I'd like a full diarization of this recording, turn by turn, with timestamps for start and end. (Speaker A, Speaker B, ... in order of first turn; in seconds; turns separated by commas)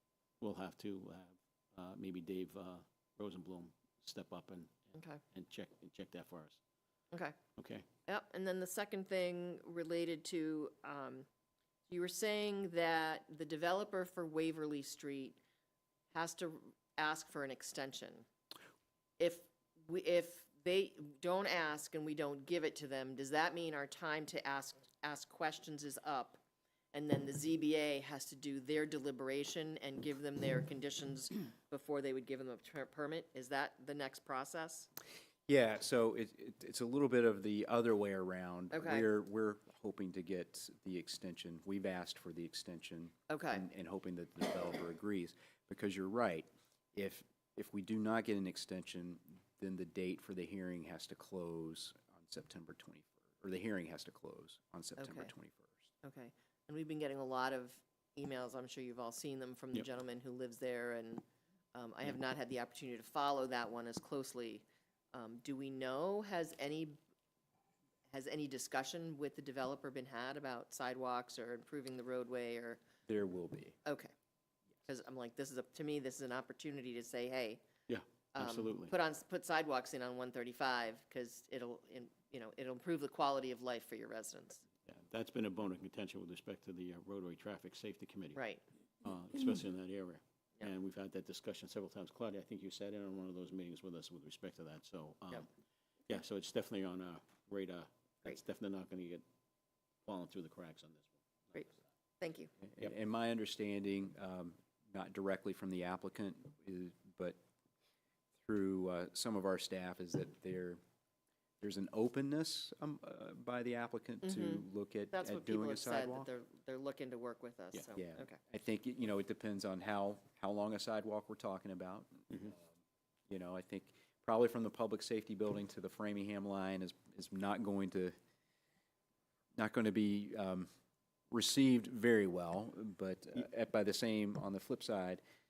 Speaker A: 0.4-6.6, Speaker B: 4.9-5.2, Speaker A: 7.5-7.9, Speaker B: 8.1-11.3, Speaker B: 11.9-15.4, Speaker B: 16.1-18.3, Speaker B: 19.2-26.4, Speaker B: 26.9-34.9, Speaker C: 35.5-55.9, Speaker B: 38.7-39.1, Speaker B: 43.3-43.6, Speaker B: 55.0-55.3, Speaker B: 56.0-67.0, Speaker B: 68.1-72.8, Speaker C: 73.1-73.8, Speaker B: 73.8-74.1, Speaker B: 74.9-77.6, Speaker A: 77.9-78.9, Speaker B: 78.3-84.6, Speaker A: 84.8-88.4, Speaker B: 88.3-88.6, Speaker A: 89.0-95.5, Speaker A: 96.1-99.2, Speaker A: 100.0-101.8, Speaker B: 102.2-102.5, Speaker C: 102.7-107.4, Speaker C: 108.4-110.8, Speaker C: 111.6-116.3, Speaker B: 114.2-118.4, Speaker C: 118.0-122.6, Speaker C: 123.3-128.1, Speaker C: 129.6-130.7, Speaker C: 131.3-135.2